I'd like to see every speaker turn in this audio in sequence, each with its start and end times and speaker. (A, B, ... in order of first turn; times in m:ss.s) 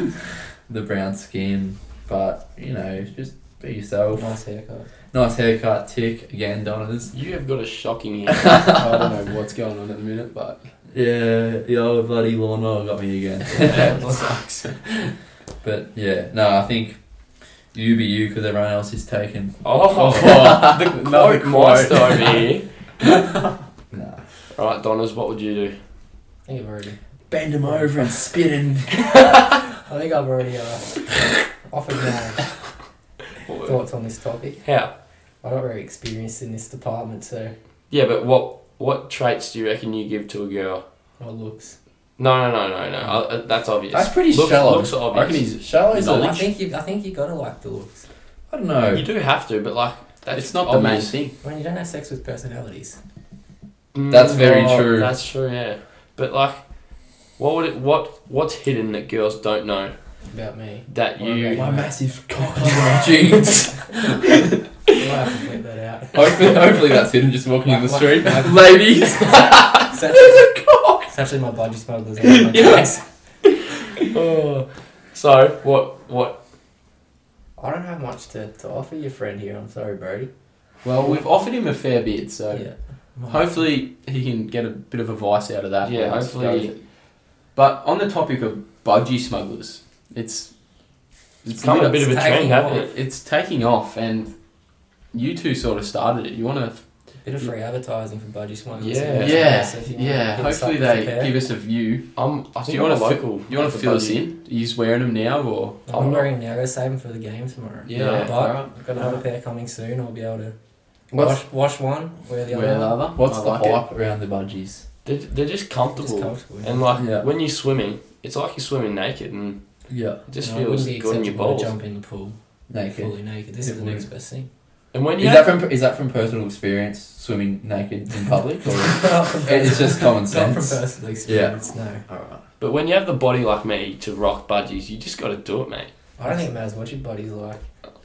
0:00.7-0:04.3 A
0:04.2-0:04.9 B
0:05.1-0:07.1 A
0:07.1-0:08.6 C
0:08.5-0:08.8 A
0:08.7-0:10.7 D
0:10.9-0:14.0 A
0:13.5-0:15.1 D
0:15.6-0:17.0 A
0:17.7-0:20.8 A
0:19.6-0:22.7 C
0:20.0-0:23.3 D
0:23.9-0:24.2 A
0:24.5-0:25.8 C
0:26.4-0:27.0 B
0:27.3-0:29.1 A
0:27.6-0:27.9 B
0:29.8-0:32.6 B
0:33.4-0:33.8 C
0:33.6-0:34.9 B
0:34.6-0:34.9 C
0:35.4-0:37.5 B
0:37.9-0:40.8 C
0:41.2-0:41.7 B
0:42.2-0:45.4 C
0:43.9-0:45.0 A
0:45.1-0:46.3 D
0:45.6-0:46.5 A
0:46.1-0:48.0 B
0:48.5-0:49.0 A
0:48.9-0:51.2 C
0:50.3-0:51.4 D
0:51.4-0:53.0 B
0:53.9-0:59.9 C
0:54.1-0:55.1 A
1:00.3-1:01.9 B
1:00.9-1:01.7 C
1:01.5-1:04.0 A
1:03.2-1:03.6 C
1:04.9-1:06.7 B
1:06.1-1:11.1 A
1:07.7-1:10.5 B
1:11.0-1:13.0 B
1:12.5-1:12.9 C
1:14.0-1:16.4 C
1:17.6-1:20.3 B
1:20.8-1:22.7 D
1:22.5-1:23.6 B
1:23.2-1:37.5 D
1:25.8-1:26.7 C
1:31.6-1:32.9 C
1:32.1-1:32.8 B
1:37.2-1:41.3 B
1:38.8-1:39.5 C
1:39.2-1:45.8 D
1:42.1-1:44.2 C
1:45.9-1:50.5 B
1:45.9-1:46.3 C
1:47.8-1:48.7 D
1:47.9-1:48.4 C
1:51.1-1:53.0 B
1:51.1-1:51.4 A
1:52.5-1:53.8 D
1:53.2-1:54.8 A
1:55.0-1:59.6 C
1:56.0-1:56.8 B
1:57.0-1:57.3 A
1:59.9-2:00.2 A
2:00.2-2:01.7 C
2:00.4-2:02.4 B
2:02.7-2:04.0 A
2:02.9-2:04.5 B
2:04.9-2:05.6 C
2:05.2-2:12.4 A
2:08.8-2:12.0 B
2:12.6-2:15.9 C
2:16.2-2:17.6 B